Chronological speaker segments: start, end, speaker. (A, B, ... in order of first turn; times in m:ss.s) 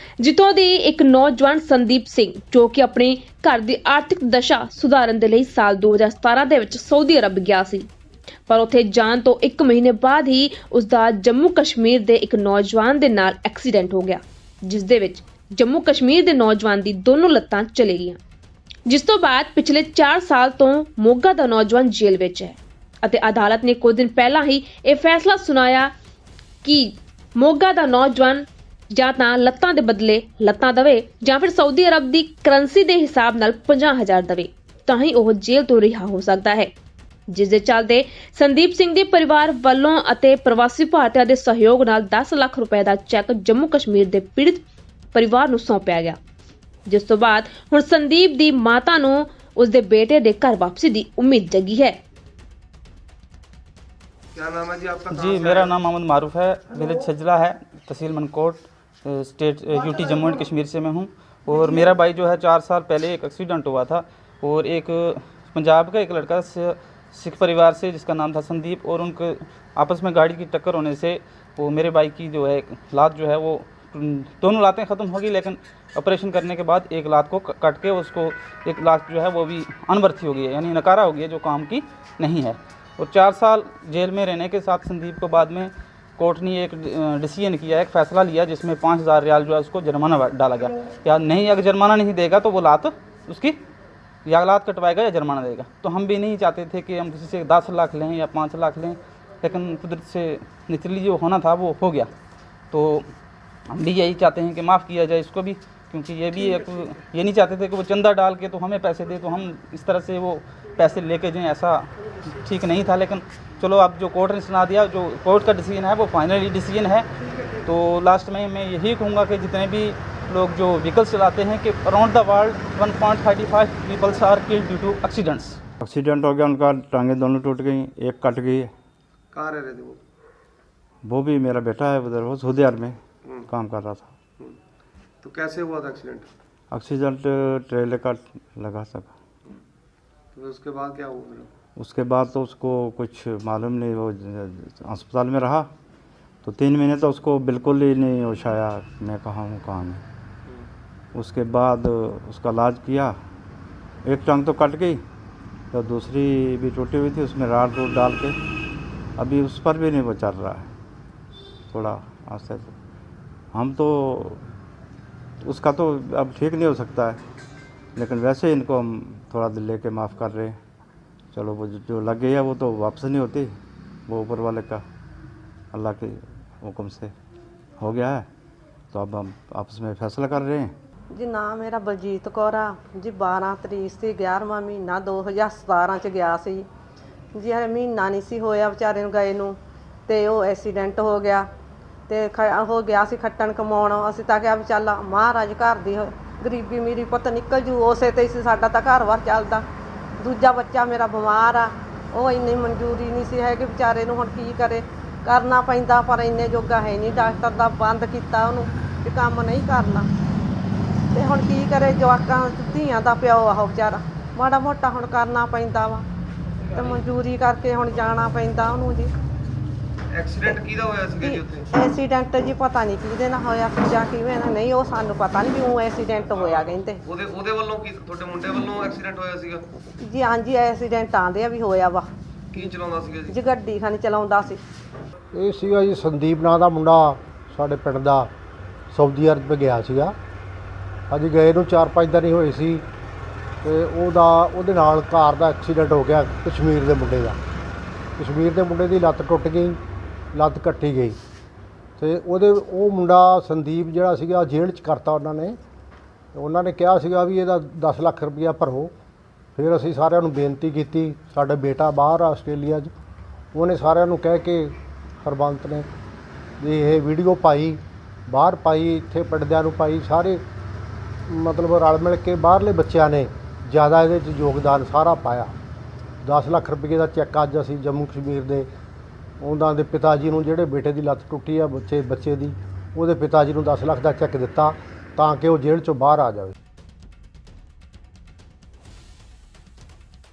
0:00.2-0:07.9 A
0:08.5-0:18.2 A
0:18.9-0:25.9 A
0:26.6-0:36.7 A
0:37.3-0:44.6 A
0:45.1-0:46.2 A
0:46.9-0:52.0 A
0:54.3-0:55.8 B
0:55.1-1:33.6 C
1:34.2-1:42.1 C
1:42.7-1:43.1 C
1:43.7-1:57.1 C
1:57.6-2:05.6 C
2:05.8-2:08.7 D
2:09.3-2:10.0 B
2:11.0-2:13.0 D
2:13.2-2:13.5 B
2:13.5-2:14.1 D
2:15.2-2:16.3 B
2:16.7-2:19.1 D
2:20.3-2:21.5 B
2:21.8-2:25.7 D
2:26.4-2:30.0 D
2:31.1-2:33.1 D
2:34.0-2:35.0 D
2:35.7-2:38.4 D
2:39.2-2:40.7 D
2:41.7-2:42.8 D
2:43.5-2:44.4 D
2:45.4-2:47.2 D
2:48.0-2:50.5 D
2:51.3-2:53.5 D
2:54.1-2:54.8 D
2:55.7-2:57.1 D
2:57.8-2:58.2 D
2:58.9-3:00.7 D
3:01.1-3:06.7 E
3:07.3-3:09.6 E
3:10.1-3:11.5 E
3:12.1-3:19.6 E
3:20.2-3:30.1 E
3:31.1-3:36.0 E
3:36.7-3:39.1 E
3:40.1-3:41.7 B
3:41.2-3:47.0 E
3:46.4-3:49.6 B
3:50.0-3:52.1 E
3:52.5-3:53.4 B
3:53.3-3:54.6 E
3:55.3-3:58.3 F
3:58.9-4:00.1 F
4:01.1-4:02.8 F
4:03.6-4:07.4 F
4:08.2-4:09.8 F
4:10.3-4:11.2 F
4:12.0-4:15.6 F
4:16.3-4:18.9 F
4:19.6-4:22.9 F
4:23.5-4:25.9 F
4:26.6-4:30.4 F
4:31.3-4:35.5 F
4:36.2-4:38.7 F
4:39.4-4:46.5 F